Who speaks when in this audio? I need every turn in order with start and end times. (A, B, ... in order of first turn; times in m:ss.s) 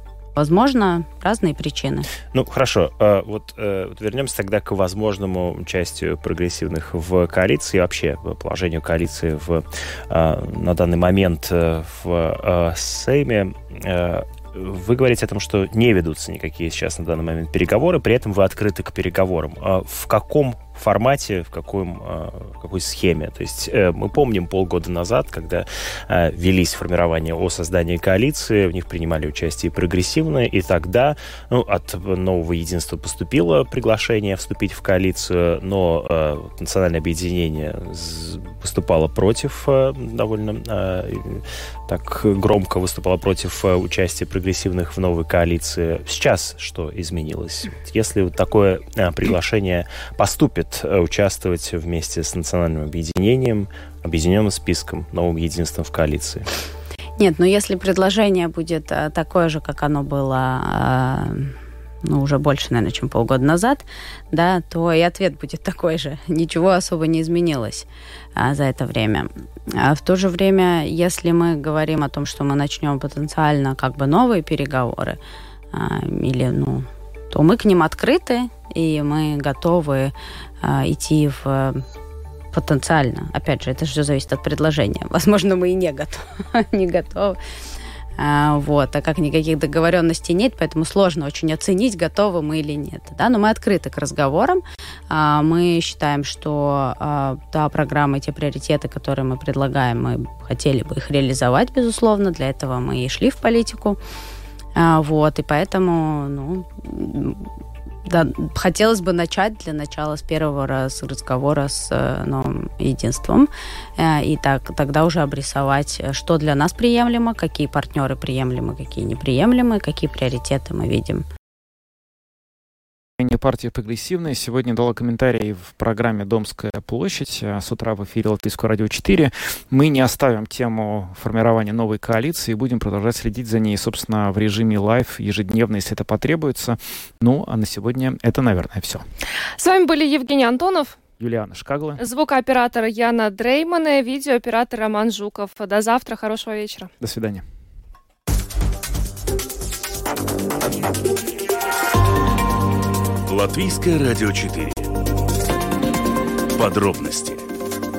0:00.4-0:02.0 A
0:02.3-0:56.4 B
0:57.2-1:01.5 A
1:02.0-1:15.2 A
1:15.7-1:21.8 A
1:22.5-1:27.4 A
1:28.2-1:44.0 A
1:44.8-1:47.5 A
1:48.1-2:01.2 A
2:03.2-2:19.0 C
2:19.6-2:21.0 D
2:21.2-2:22.0 C
2:22.0-2:26.9 D
2:27.0-2:27.4 C
2:33.3-2:34.9 E
2:36.6-2:37.4 E